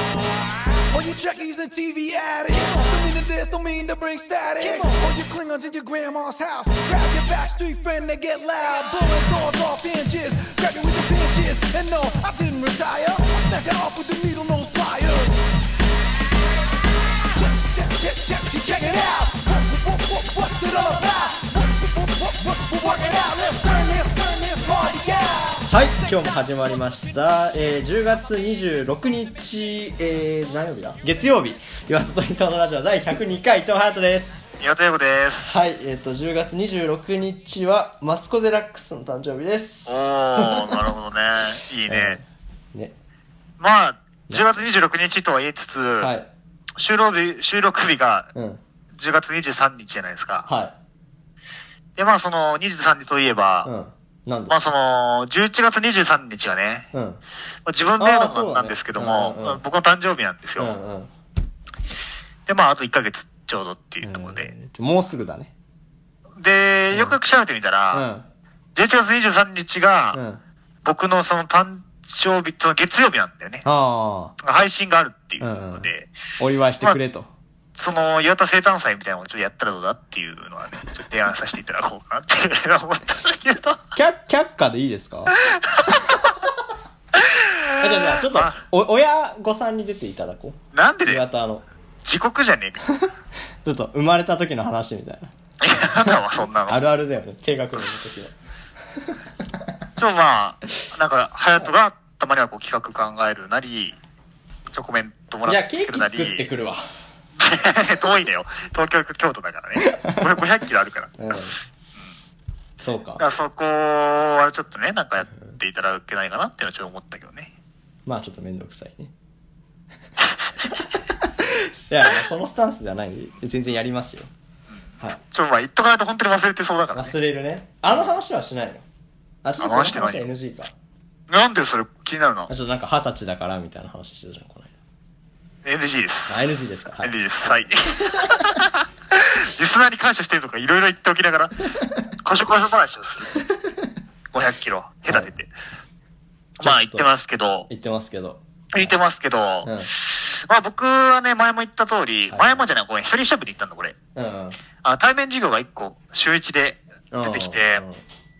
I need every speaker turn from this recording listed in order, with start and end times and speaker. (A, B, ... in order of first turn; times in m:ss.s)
0:00.9-0:15.4 A
0:17.3-0:25.7 A
0:25.7-0:34.5 B
0:34.6-0:35.5 C
0:35.4-0:40.9 B
0:39.8-0:42.2 C
0:41.9-0:42.9 B
0:43.6-0:46.1 C
0:44.3-0:44.6 B
0:46.0-0:46.3 B
0:46.8-0:48.3 C
0:48.3-0:48.6 B
0:48.9-0:50.5 C
0:50.5-0:50.8 B
0:52.0-0:53.7 C
0:53.6-0:54.7 B
0:54.5-0:56.9 C
0:56.9-0:57.2 B
0:57.6-1:00.7 C
0:58.0-0:59.6 B
1:00.6-1:01.1 B
1:02.5-1:04.5 C
1:04.0-1:05.5 B
1:06.4-1:08.1 C
1:06.9-1:07.2 B
1:07.9-1:08.3 B
1:08.7-1:10.2 C
1:10.1-1:10.4 B
1:10.8-1:13.6 C
1:13.6-1:14.3 B
1:14.4-1:16.1 C
1:15.4-1:15.9 B
1:16.4-1:17.3 B
1:17.8-1:23.8 C
1:23.9-1:25.3 B
1:25.4-1:26.3 C
1:26.1-1:26.5 B
1:27.2-1:28.6 C
1:27.8-1:31.6 B
1:30.7-1:31.2 C
1:32.0-1:32.8 C
1:33.6-1:35.3 B
1:35.6-1:36.8 C
1:36.7-1:38.3 B
1:39.0-1:39.7 B
1:40.0-1:44.0 C
1:44.7-1:46.4 C
1:45.4-1:46.8 B
1:47.4-1:51.1 C
1:49.9-1:50.2 B
1:51.2-1:51.5 B
1:52.8-1:53.2 B
1:53.2-1:57.5 C
1:58.0-1:59.1 B
2:00.6-2:04.3 B
2:05.2-2:07.1 C
2:06.9-2:08.8 B
2:07.9-2:08.1 C
2:09.4-2:10.7 B
2:09.6-2:10.3 C
2:11.3-2:12.5 C
2:12.5-2:14.7 B
2:15.6-2:16.4 C
2:16.3-2:17.1 B
2:17.0-2:21.5 C
2:18.0-2:18.3 B
2:22.2-2:23.3 C
2:24.3-2:25.5 C
2:26.6-2:27.7 C
2:26.6-2:27.1 B
2:27.7-2:28.9 B
2:28.7-2:34.0 C
2:29.6-2:29.9 B
2:32.3-2:32.6 B
2:34.1-2:34.6 B
2:34.8-2:37.8 C
2:37.1-2:38.0 B